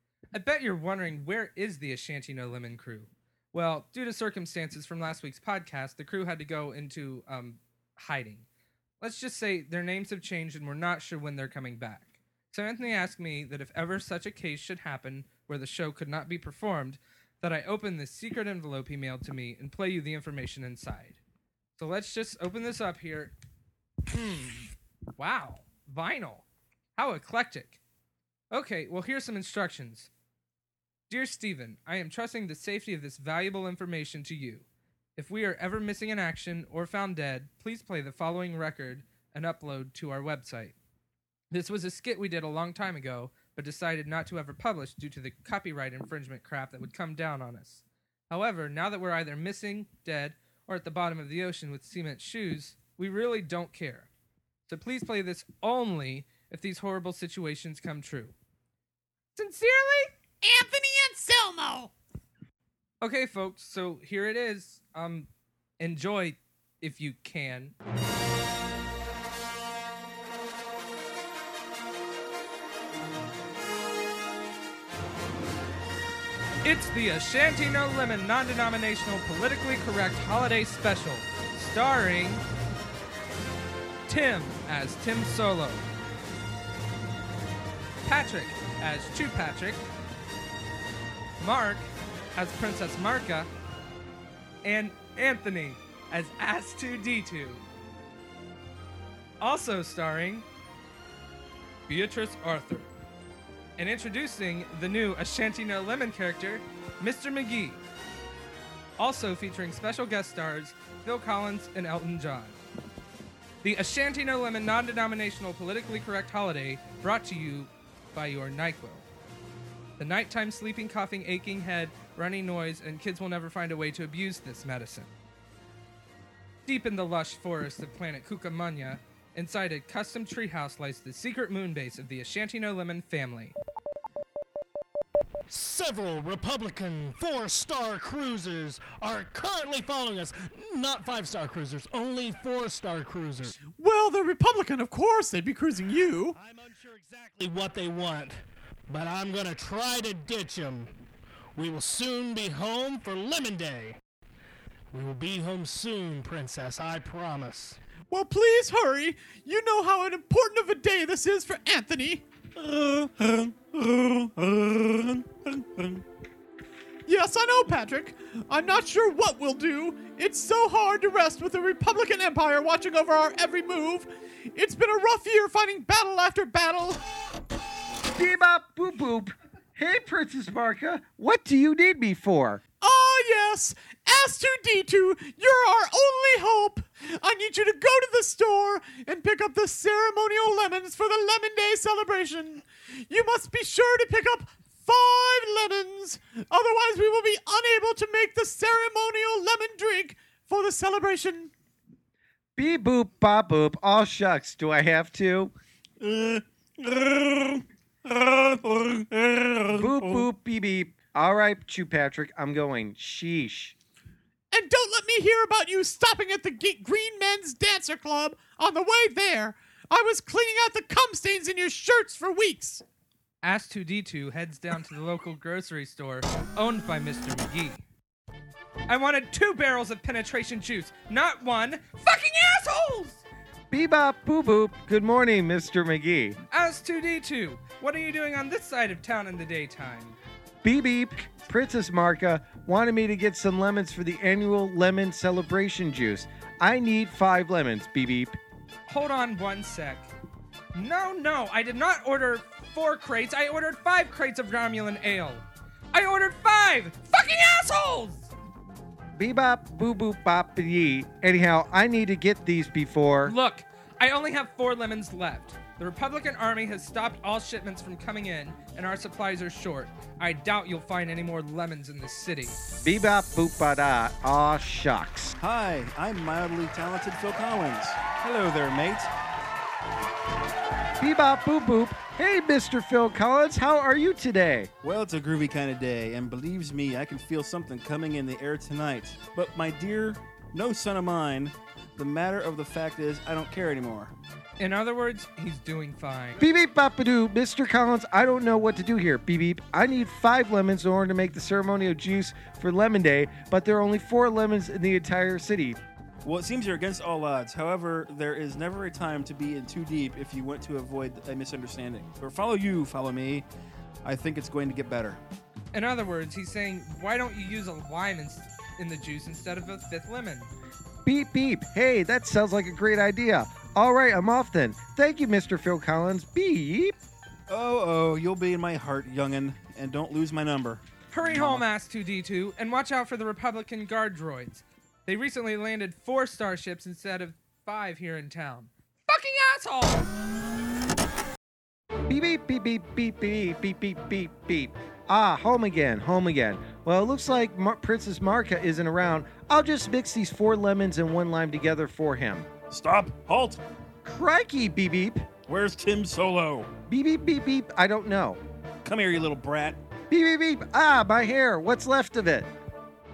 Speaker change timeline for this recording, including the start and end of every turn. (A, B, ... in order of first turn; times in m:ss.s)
0:00.3-0:08.5 A
0:09.0-0:21.2 A
0:21.8-0:23.3 A
0:24.1-0:24.6 A
0:25.2-0:26.4 A
0:27.0-0:27.8 A
0:28.5-0:30.1 A
0:31.1-0:34.7 A
0:35.2-0:40.8 A
0:41.5-0:54.1 A
0:54.7-0:58.3 A
0:59.4-1:00.1 A
1:00.4-1:01.9 B
1:03.0-1:05.3 A
1:05.8-1:07.8 A
1:16.6-1:22.4 A
1:24.1-1:25.9 A
1:28.0-1:29.8 A
1:31.4-1:33.5 A
1:34.6-1:37.6 A
1:39.4-1:40.4 A
1:41.9-1:42.9 A
1:43.8-1:47.8 A
1:49.0-1:52.6 A
1:53.6-1:59.0 A
2:00.0-2:05.1 A
2:06.7-2:13.6 A
2:15.5-2:23.6 C
2:23.6-2:26.4 B
2:26.4-2:30.9 C
2:31.6-2:34.0 C
2:34.9-2:37.8 C
2:38.1-2:46.0 B
2:47.1-2:57.0 B
2:58.1-3:02.6 D
3:02.8-3:21.5 B
3:22.6-3:25.5 D
3:26.0-3:26.4 E
3:27.3-3:27.6 E
3:28.1-3:28.4 B
3:28.6-3:29.8 E
3:29.7-3:33.8 D
3:34.5-3:42.8 B
3:43.4-3:47.8 A
3:48.9-3:53.2 A
3:53.7-3:56.4 D
3:56.5-4:00.2 A
4:00.6-4:08.4 D
4:08.9-4:10.1 A
4:10.8-4:18.3 A
4:19.2-4:23.3 D
4:23.3-4:32.6 A
4:32.8-4:35.3 D
4:35.4-4:39.1 E
4:41.0-4:44.7 D
4:44.8-4:54.1 E
4:54.6-4:56.4 A
4:56.4-5:05.8 D
5:06.2-5:13.4 E
5:14.0-5:15.2 E
5:15.7-5:20.5 A
5:21.0-5:26.9 D
5:27.5-5:31.6 E
5:31.1-5:40.1 A
5:42.1-5:52.5 D
5:52.7-5:53.6 E
5:54.0-5:55.3 D
5:55.5-5:56.7 E
5:56.9-5:58.4 D
5:58.8-5:59.8 E
6:00.1-6:02.5 D